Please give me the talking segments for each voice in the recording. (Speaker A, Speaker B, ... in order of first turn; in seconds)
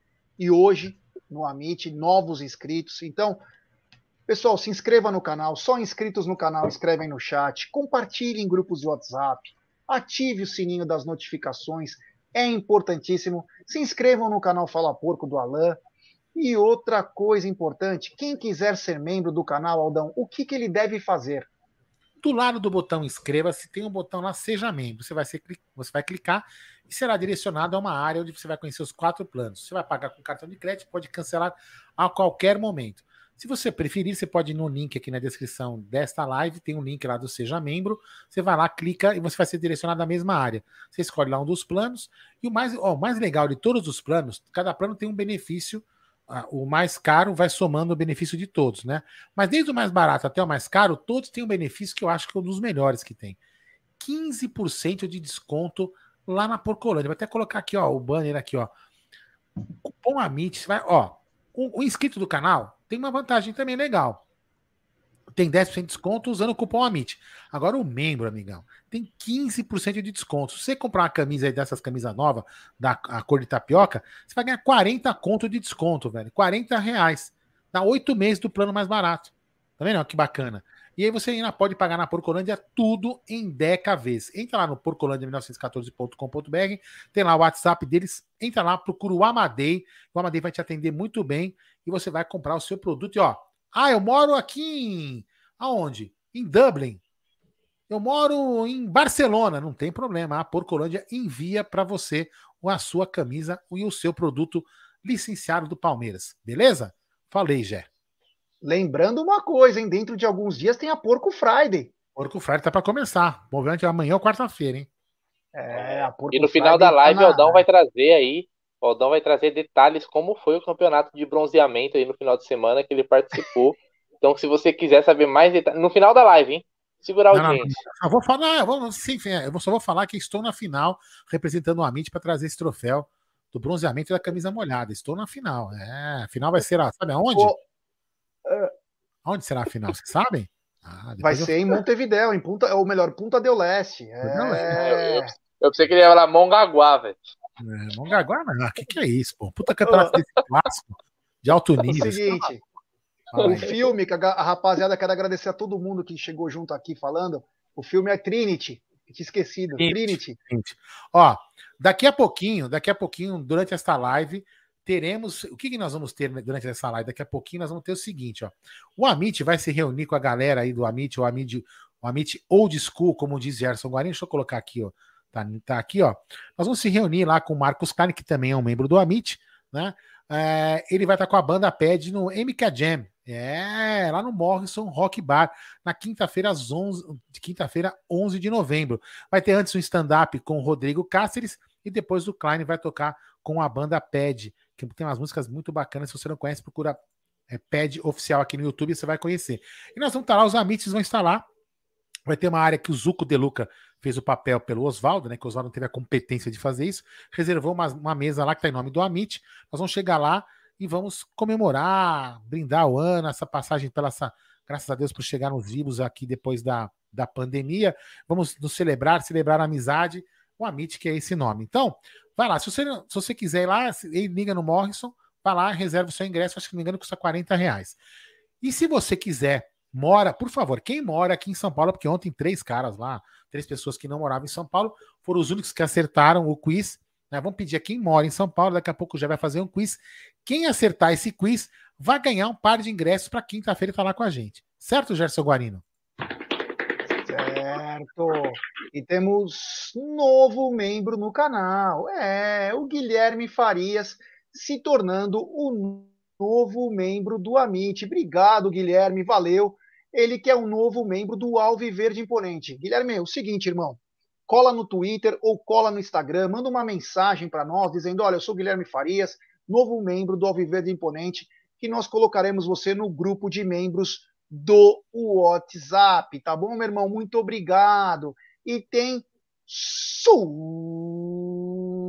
Speaker A: 0.4-3.4, 4.3-15.8, 16.3-21.5, 108.6-111.9, 115.5-117.6, 137.3-137.6, 138.4-138.7, 141.2-145.3, 149.9-150.1, 151.8-152.6, 153.4-160.4, 247.2-281.4
Speaker B: 22.2-53.4, 54.0-58.7, 59.8-64.2, 65.3-97.0, 97.9-107.9, 112.2-114.9, 127.3-137.5, 139.2-141.5, 144.2-144.8, 147.6-152.5, 153.3-153.7, 159.8-201.4, 202.3-228.0, 228.6-245.8
Speaker C: 115.7-127.7, 144.7-147.2